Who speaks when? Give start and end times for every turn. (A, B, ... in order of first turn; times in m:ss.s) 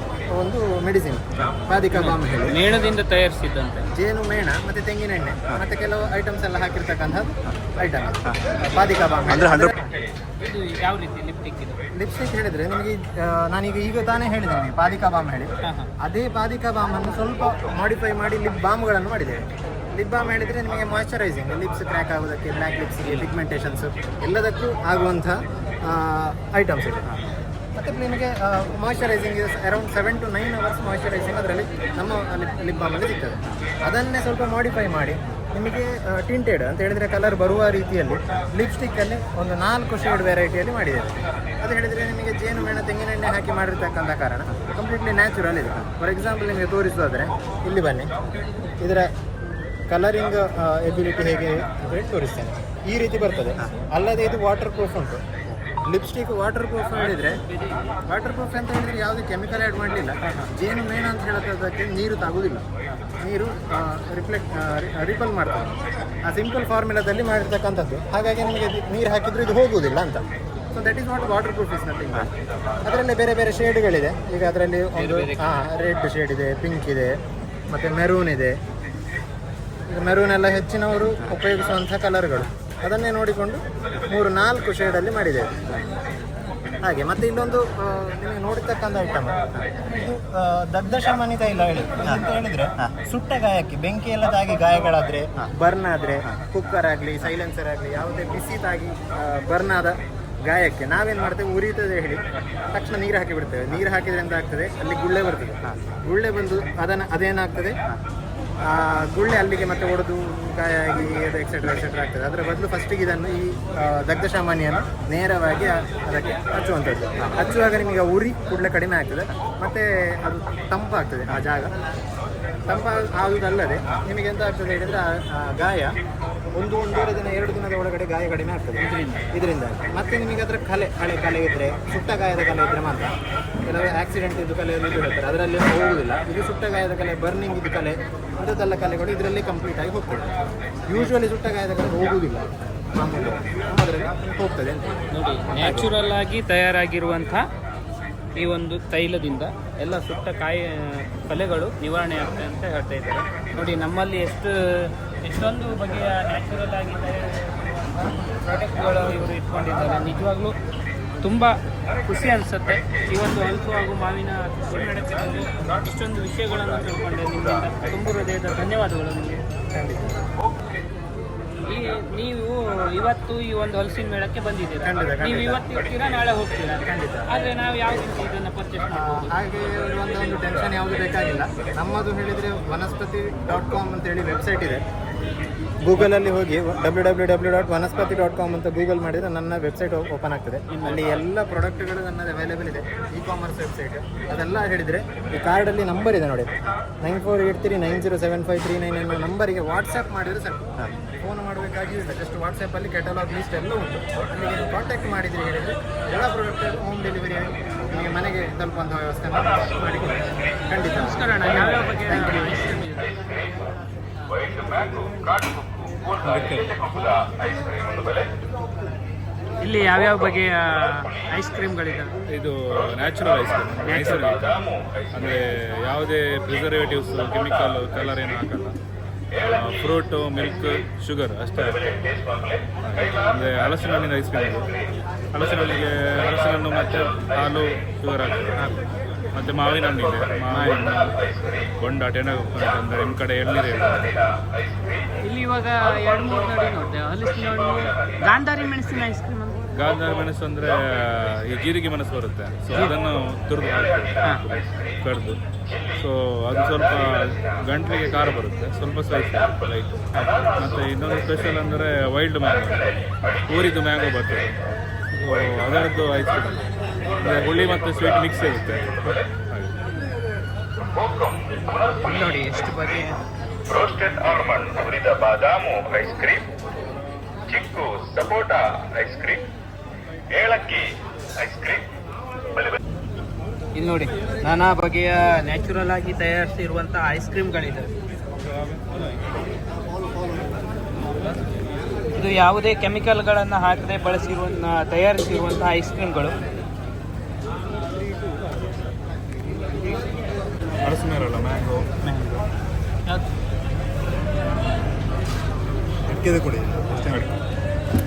0:00.3-0:02.8 A
0:02.0-0:03.9 B
0:03.9-0:10.1 A
0:10.4-0:11.8 B
0:11.9-0:27.2 A
0:15.6-0:15.9 B
0:27.8-0:48.1 A
0:48.8-0:49.1 A
0:49.9-0:57.4 A
0:58.1-1:02.6 A
1:00.2-1:00.5 B
1:03.2-1:12.3 A
1:12.8-1:17.2 A
1:15.0-1:15.4 B
1:17.7-1:18.6 A
1:19.9-1:25.6 A
1:26.8-1:47.8 A
1:48.7-2:01.8 A
2:02.7-2:06.0 A
2:06.6-2:13.2 A
2:08.8-2:09.3 B
2:13.7-2:20.3 A
2:20.9-2:25.9 A
2:25.1-2:27.5 B
2:28.4-2:40.5 B
2:41.2-2:49.4 B
2:49.7-2:50.2 A
2:51.7-2:59.3 B
2:54.8-2:55.6 A
2:56.9-2:57.3 A
2:58.9-3:04.8 A
3:05.8-3:32.5 A
3:10.7-3:11.0 B
3:31.0-3:33.1 B
3:39.6-3:42.1 B
3:42.3-3:48.8 C
3:43.9-3:44.2 B
3:49.4-3:51.9 C
3:52.8-3:54.7 C
3:55.3-3:58.7 C
3:59.3-4:01.2 C
4:00.5-4:00.8 B
4:01.8-4:04.2 C
4:05.2-4:09.7 B
4:09.8-4:15.4 C
4:15.9-4:22.9 C
4:23.5-4:24.5 C
4:25.1-4:26.6 C
4:27.2-4:29.8 C
4:32.0-4:33.2 B
4:34.6-4:36.4 D
4:37.6-4:39.4 D
4:40.4-4:40.8 D
4:43.8-4:47.9 B
4:52.1-4:56.3 B
5:00.8-5:01.9 C
5:02.0-5:02.5 B
5:06.1-5:07.4 C